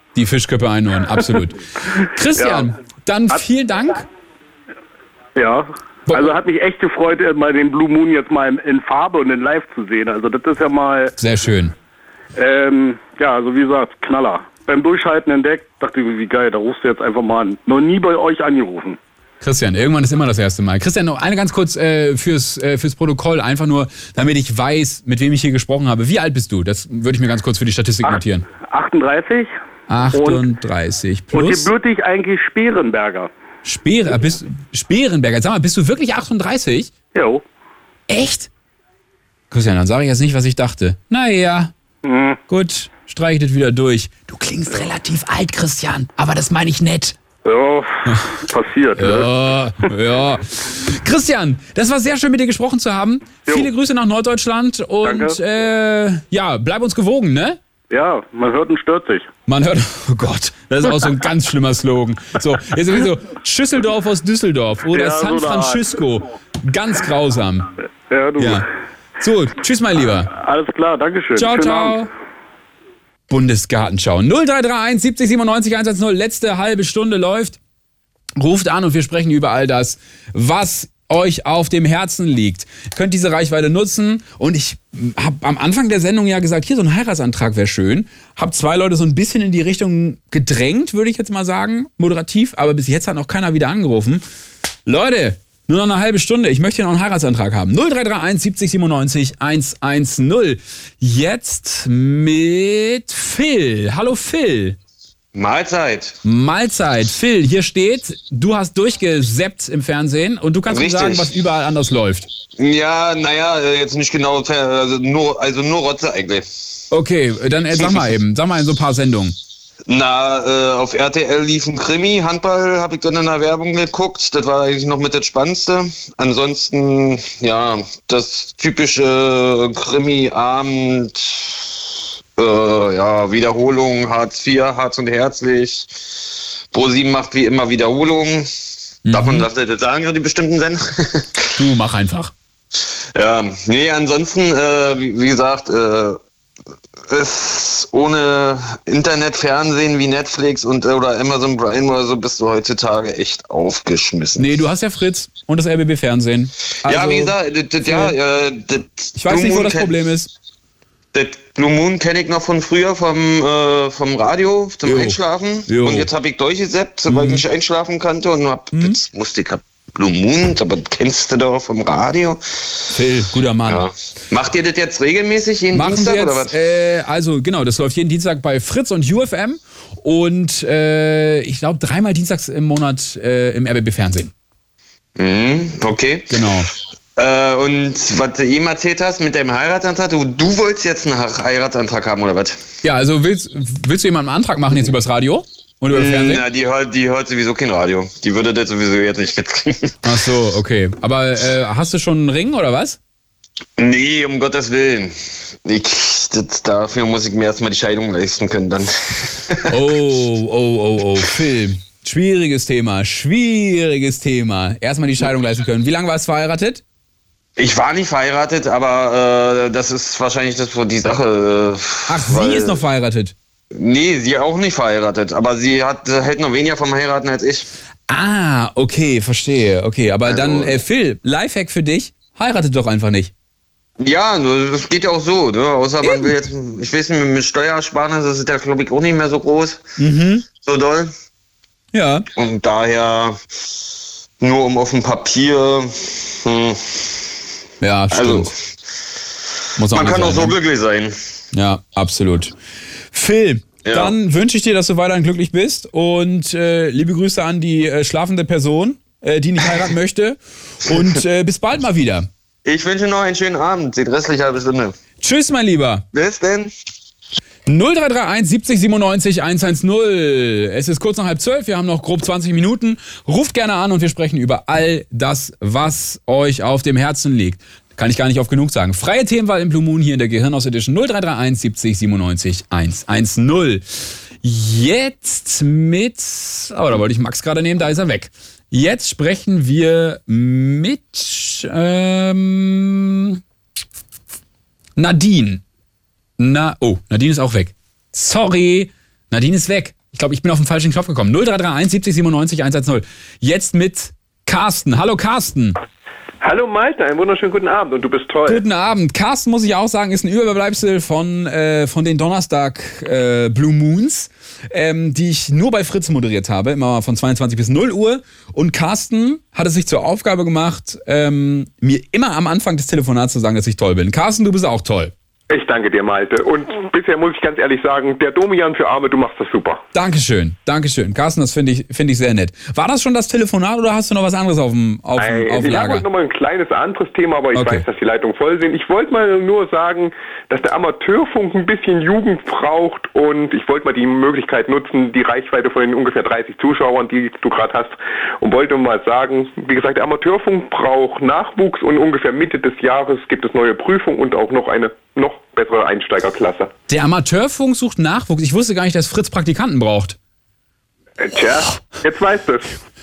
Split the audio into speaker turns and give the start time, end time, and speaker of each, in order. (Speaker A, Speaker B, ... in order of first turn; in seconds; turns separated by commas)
Speaker A: 0.1-4.0, Speaker B: 2.4-2.6, Speaker B: 5.3-11.1, Speaker A: 6.1-6.3, Speaker A: 11.2-11.7, Speaker B: 12.4-19.0, Speaker A: 19.4-28.4, Speaker B: 28.0-29.5, Speaker A: 29.9-31.7, Speaker B: 30.1-30.4, Speaker B: 31.3-33.3, Speaker A: 33.6-36.9, Speaker B: 37.1-37.4, Speaker A: 38.1-38.5, Speaker A: 39.5-41.7, Speaker B: 42.0-42.4, Speaker A: 42.5-47.2, Speaker B: 47.5-48.0, Speaker B: 48.5-49.3, Speaker A: 49.0-57.6, Speaker B: 55.0-55.4, Speaker B: 57.9-59.3, Speaker A: 59.5-67.7, Speaker B: 64.9-65.8, Speaker B: 68.1-68.6, Speaker A: 68.4-68.6, Speaker A: 69.2-70.3, Speaker B: 70.3-72.0, Speaker A: 71.3-72.1, Speaker A: 73.3-77.6, Speaker A: 78.4-94.2, Speaker A: 94.8-104.8, Speaker C: 105.3-106.2, Speaker A: 106.2-112.3, Speaker C: 110.7-111.3, Speaker C: 112.6-116.5, Speaker A: 116.9-119.3, Speaker C: 119.9-131.6, Speaker C: 132.4-138.5, Speaker A: 139.0-139.5, Speaker C: 139.1-141.2, Speaker A: 141.6-142.3, Speaker C: 143.2-146.2, Speaker C: 147.1-154.5, Speaker A: 154.3-158.1, Speaker C: 156.8-159.9, Speaker A: 159.2-160.3, Speaker C: 161.1-172.4, Speaker A: 164.8-166.1, Speaker A: 167.1-167.4, Speaker A: 168.7-169.0, Speaker A: 172.9-173.8, Speaker C: 173.7-176.5, Speaker A: 175.7-184.3, Speaker C: 185.2-186.3, Speaker A: 186.3-186.7, Speaker C: 187.2-192.6, Speaker A: 192.8-196.4, Speaker C: 195.9-199.9, Speaker A: 200.0-203.0, Speaker C: 203.8-209.6, Speaker A: 209.7-216.8, Speaker C: 217.6-222.8, Speaker A: 222.1-223.3, Speaker C: 223.7-227.7, Speaker A: 228.1-233.3, Speaker C: 230.2-230.8, Speaker C: 234.0-239.8, Speaker A: 240.0-240.5, Speaker C: 240.6-241.1, Speaker A: 241.9-242.2, Speaker C: 242.4-243.4, Speaker C: 244.4-247.1, Speaker A: 247.8-248.5, Speaker C: 248.1-248.5, Speaker A: 249.8-250.5, Speaker C: 249.9-251.2, Speaker A: 251.5-252.5, Speaker A: 253.1-262.3, Speaker C: 253.8-254.1, Speaker C: 262.6-264.9, Speaker A: 265.2-266.1, Speaker C: 266.1-266.7, Speaker A: 267.6-283.8, Speaker A: 284.4-293.4, Speaker A: 294.9-295.6, Speaker A: 296.4-305.8, Speaker D: 306.4-308.6, Speaker A: 308.4-325.1, Speaker D: 325.5-329.8, Speaker A: 329.9-336.1, Speaker D: 335.2-356.7, Speaker A: 337.5-337.9, Speaker A: 356.9-360.2, Speaker D: 361.2-362.7